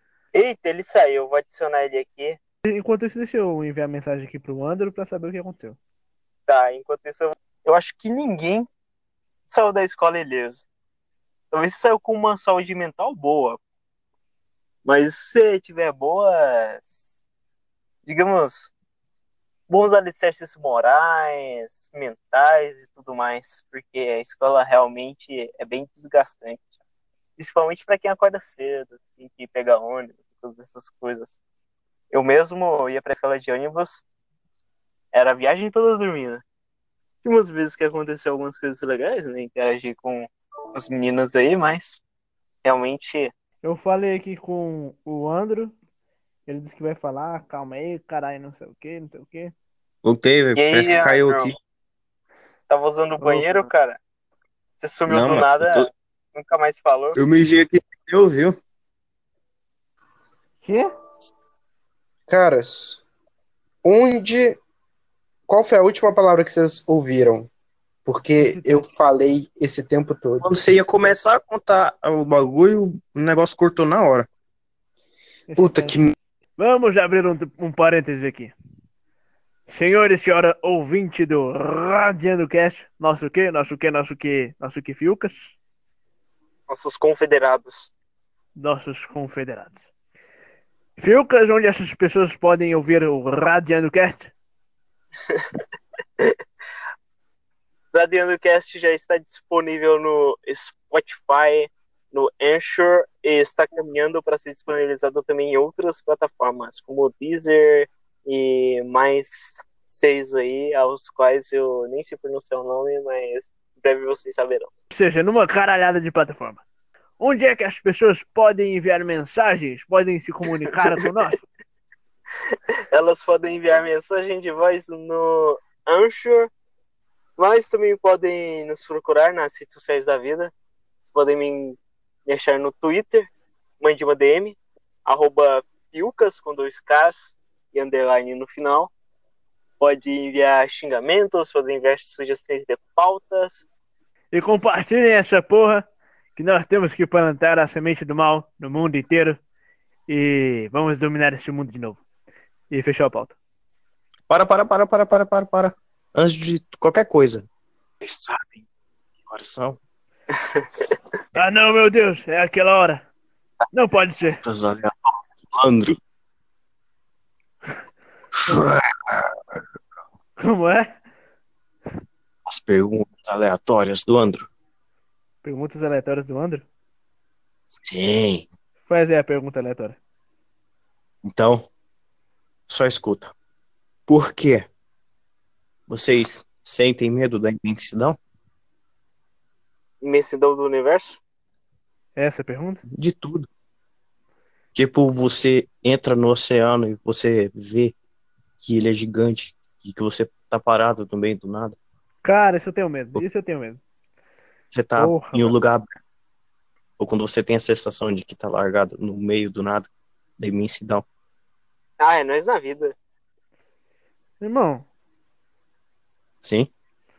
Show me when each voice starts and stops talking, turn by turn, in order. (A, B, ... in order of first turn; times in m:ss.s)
0:00.3-0:02.4 A
0:02.6-0:05.8 B
0:06.5-0:08.7 A
0:09.5-0:10.6 A
0:11.5-0:13.6 A
0:14.8-0:17.2 A
0:18.1-0:18.7 A
0:19.7-0:26.7 A
0:27.4-0:31.4 A
0:32.1-0:34.0 A
0:35.1-0:36.4 A
0:37.2-0:42.0 A
0:42.6-0:43.3 A
0:43.6-0:45.8 B
0:46.5-0:49.5 B
0:50.0-0:51.6 C
0:50.6-0:51.5 A
0:52.7-0:54.0 A
0:53.2-0:53.7 B
0:54.8-0:57.2 A
0:55.1-0:55.9 C
0:57.2-0:58.6 C
1:00.6-1:00.9 B
1:02.3-1:03.0 D
1:03.8-1:04.6 D
1:05.5-1:07.5 D
1:08.1-1:10.5 D
1:08.4-1:08.8 B
1:10.4-1:14.3 C
1:15.5-1:16.0 B
1:15.6-1:16.2 D
1:16.6-1:18.6 B
1:19.7-1:25.6 B
1:26.7-1:27.9 A
1:28.6-1:29.8 B
1:31.0-1:34.3 B
1:37.9-1:54.7 A
1:54.9-1:56.6 B
1:57.2-2:01.4 B
2:02.9-2:06.5 A
2:07.4-2:10.5 A
2:11.0-2:13.3 A
2:13.8-2:18.9 A
2:19.8-2:23.6 A
2:24.3-2:29.4 B
2:30.1-2:32.0 B
2:32.7-2:33.4 B
2:34.3-2:37.5 C
2:38.0-2:38.6 C
2:39.3-2:39.8 C
2:41.3-2:43.0 B
2:43.7-2:44.4 B
2:44.4-2:46.0 C
2:48.3-2:49.3 C
2:50.4-2:51.0 B
2:52.5-2:54.5 C
2:55.4-2:56.7 B
2:57.7-2:58.5 C
2:58.8-3:00.0 B
3:01.2-3:01.6 C
3:02.7-3:03.3 C
3:04.1-3:04.7 C
3:05.9-3:08.2 C
3:10.0-3:11.2 A
3:12.2-3:12.8 B
3:12.9-3:13.5 C
3:14.8-3:18.0 C
3:18.6-3:21.8 C
3:22.2-3:23.8 B
3:24.7-3:26.0 C
3:25.0-3:25.5 B
3:27.0-3:31.0 C
3:32.0-3:32.9 A
3:34.4-3:34.8 B
3:36.4-3:36.7 C